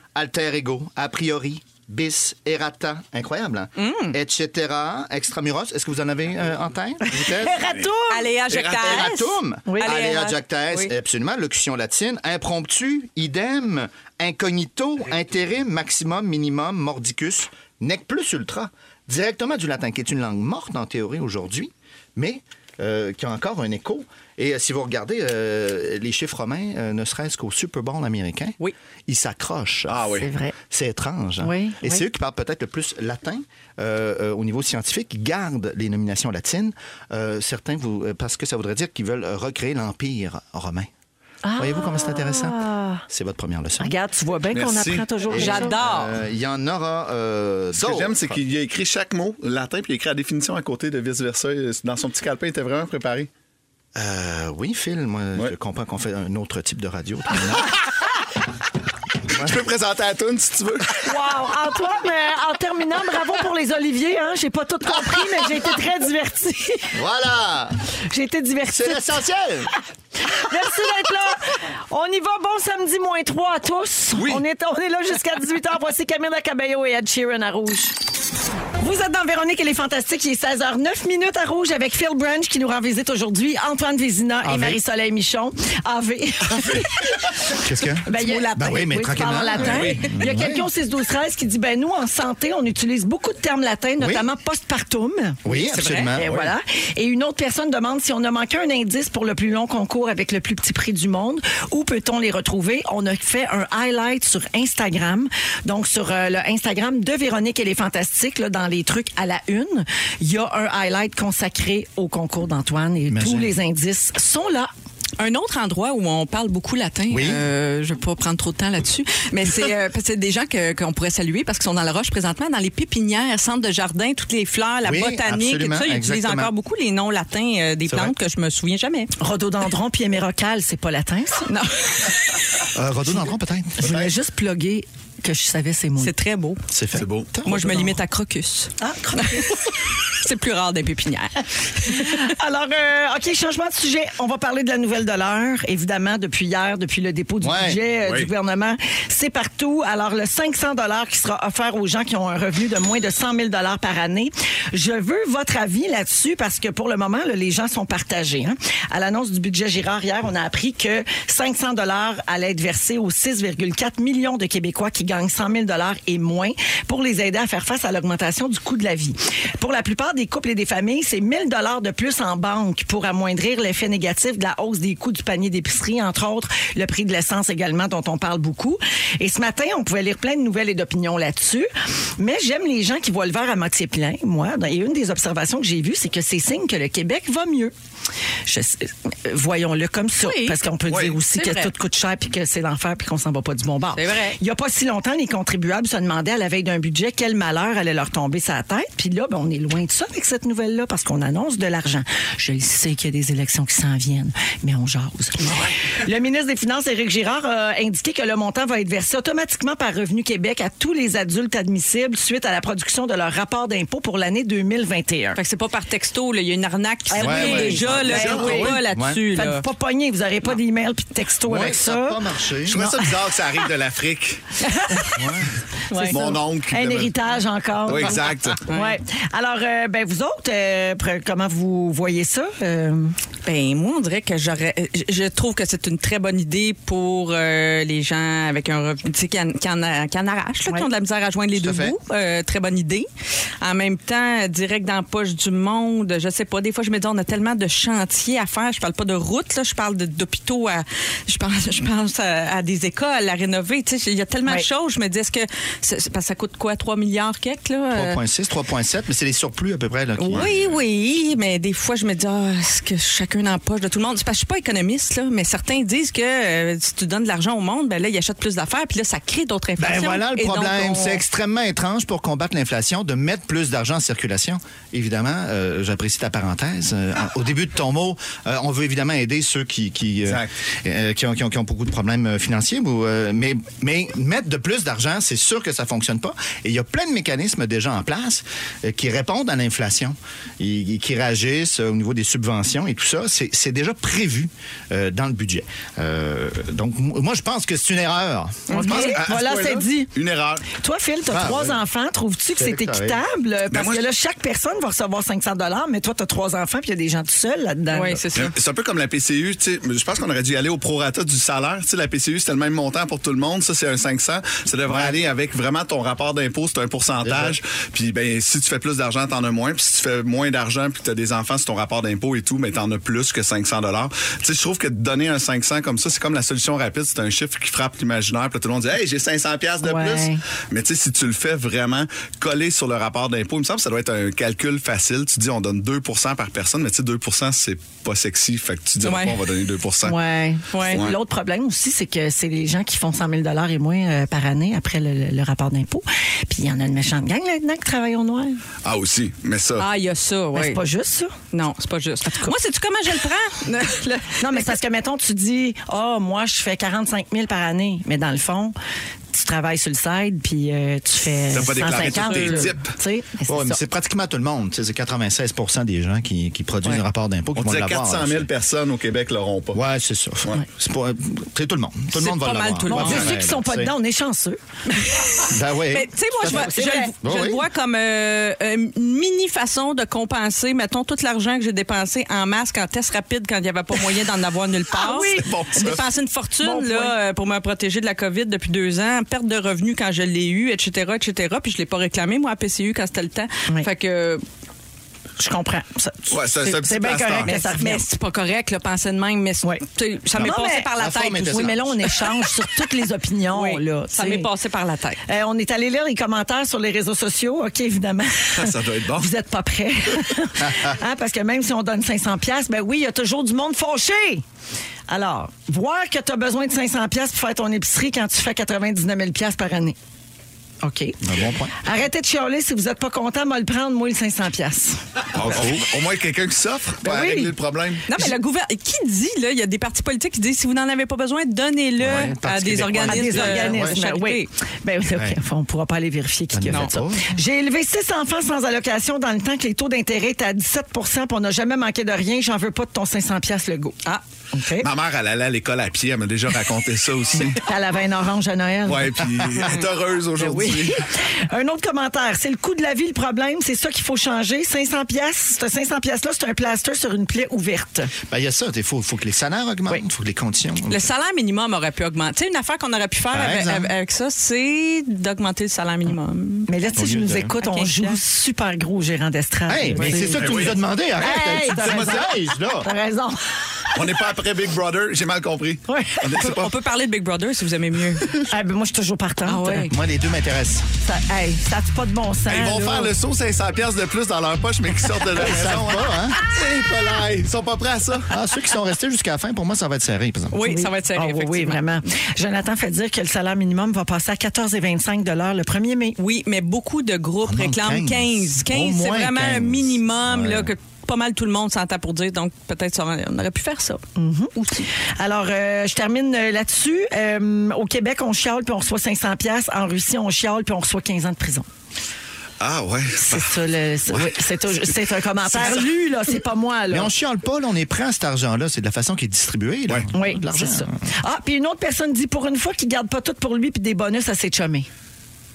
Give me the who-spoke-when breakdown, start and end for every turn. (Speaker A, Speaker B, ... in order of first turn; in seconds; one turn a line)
Speaker A: 0.1-7.8
Speaker B: 3.8-4.2
Speaker C: 7.0-8.3
Speaker B: 8.1-10.9
Speaker D: 8.5-9.0
Speaker A: 8.7-28.6
Speaker C: 9.7-10.0
Speaker A: 29.1-30.1
Speaker D: 29.9-30.3
Speaker C: 30.1-30.6
Speaker A: 30.6-40.9
Speaker C: 31.4-32.0
Speaker C: 41.4-43.0
Speaker A: 41.6-43.9
Speaker C: 43.8-45.8
Speaker D: 44.5-45.1
Speaker B: 45.3-46.1
Speaker A: 45.3-48.4
Speaker D: 47.8-53.3
Speaker A: 54.0-57.8
Speaker D: 59.3-61.1
Speaker A: 59.3-59.6
Speaker C: 61.0-67.0
Speaker A: 66.9-67.8
Speaker C: 68.1-69.2
Speaker A: 68.7-69.7
Speaker C: 70.3-78.0
Speaker D: 74.2-74.4
Speaker C: 78.8-95.4
Speaker A: 84.4-84.8
Speaker A: 87.5-90.7
Speaker B: 88.1-88.4
Speaker B: 89.6-90.1
Speaker A: 94.0-94.3
Speaker A: 95.4-96.6
Speaker B: 95.5-96.2
Speaker C: 96.1-114.7
Speaker A: 113.1-113.5
Speaker B: 115.2-129.1
Speaker A: 117.1-117.5
Speaker A: 124.8-126.5
Speaker A: 127.9-128.1
Speaker C: 129.2-131.5
Speaker B: 131.5-132.2
Speaker A: 132.7-134.0
Speaker C: 133.8-136.1
Speaker B: 136.0-136.7
Speaker A: 136.7-137.9
Speaker D: 136.9-137.3
Speaker B: 137.4-142.3
Speaker C: 137.5-137.8
Speaker C: 138.8-139.6
Speaker C: 141.9-187.7
Speaker A: 147.4-147.8
Speaker D: 148.0-148.3
Speaker C: 188.5-215.4
Speaker B: 190.2-190.6
Speaker D: 190.9-191.2
Speaker B: 191.3-191.7
Speaker B: 193.9-194.4
Speaker B: 215.3-219.7
Speaker C: 217.1-223.1
Speaker A: 217.2-219.2
Speaker D: 217.9-218.7
Speaker A: 221.4-222.9
Speaker D: 222.7-225.1
Speaker C: 224.6-225.2
Speaker A: 225.2-225.5
Speaker C: 225.9-233.2
Speaker B: 225.9-226.4
Speaker D: 226.1-227.1
Speaker D: 227.9-228.6
Speaker B: 228.7-229.0
Speaker B: 233.4-243.1
Speaker A: 241.6-242.0
Speaker B: 243.6-258.2
Speaker A: 257.9-260.6
Speaker B: 260.2-271.2
Speaker D: 260.3-260.7
Speaker A: 269.8-298.8
Speaker B: 298.7-299.2
Speaker C: 298.7-300.1
Speaker D: 298.8-300.7
Speaker C: 300.7-308.2
Speaker A: 301.3-301.8
Speaker A: 302.6-303.2
Speaker D: 303.7-304.1
Speaker B: 307.9-308.6
Speaker D: 308.3-340.2
Speaker A: 314.9-315.2
Speaker A: 317.2-317.6
Speaker C: 329.8-330.4
Speaker B: 339.0-339.4
Speaker C: 340.0-348.6
Speaker B: 340.7-341.1
Speaker D: 340.9-341.2
Speaker D: 348.8-349.9
Speaker B: 349.8-350.8
Speaker C: 350.5-351.3
Speaker B: 351.5-354.7
Speaker C: 352.3-352.5
Speaker C: 354.4-358.8
Speaker C: 359.3-363.8
Speaker D: 361.5-362.9
Speaker B: 361.7-362.7
Speaker A: 363.5-368.5
Speaker D: 367.6-369.8
Speaker A: 369.7-373.9
Speaker B: 372.1-373.3
Speaker C: 372.9-374.6
Speaker B: 374.9-394.4
Speaker A: 375.4-377.6
Speaker C: 376.4-377.1
Speaker C: 384.9-386.0
Speaker D: 385.4-386.1
Speaker C: 386.6-387.2
Speaker C: 395.4-398.1
Speaker D: 396.3-397.6
Speaker B: 397.5-402.3
Speaker C: 400.4-400.9
Speaker A: 400.4-402.1
Speaker C: 401.4-404.5
Speaker B: 403.5-405.2
Speaker C: 405.2-414.4
Speaker D: 408.6-409.3
Speaker A: 410.6-410.9
Speaker C: 415.1-420.0
Speaker C: 420.8-421.2
Speaker A: 421.2-421.8
Speaker C: 421.7-425.0
Speaker D: 425.3-428.1
Speaker A: 425.4-425.8
Speaker C: 427.0-427.5
Speaker B: 428.1-434.5
Speaker A: 432.0-434.0
Speaker C: 433.1-444.0
Speaker A: 435.1-435.4
Speaker A: 436.5-437.4
Speaker C: 444.5-444.9
Speaker D: 444.8-447.6
Speaker C: 447.5-449.7
Speaker D: 448.9-451.0
Speaker C: 450.4-458.1
Speaker A: 458.3-461.1
Speaker B: 460.9-466.7
Speaker A: 463.3-463.9
Speaker C: 466.7-474.0
Speaker A: 467.0-467.5
Speaker B: 467.6-468.2
Speaker A: 469.7-472.9
Speaker D: 470.3-470.8
Speaker D: 471.6-472.3
Speaker D: 473.9-476.7
Speaker C: 475.9-476.5
Speaker B: 476.4-478.4
Speaker C: 478.4-479.9
Speaker B: 479.5-479.9
Speaker A: 479.9-480.9
Speaker C: 481.0-483.1
Speaker D: 482.5-488.4
Speaker A: 485.3-486.4
Speaker A: 488.3-490.6
Speaker B: 490.5-491.8
Speaker C: 490.6-496.2
Speaker B: 496.2-504.0
Speaker A: 497.4-500.7
Speaker C: 504.2-511.7
Speaker B: 504.6-504.9
Speaker D: 512.6-514.4
Speaker C: 513.2-517.1
Speaker D: 515.6-515.8
Speaker A: 516.9-521.0
Speaker C: 520.1-524.9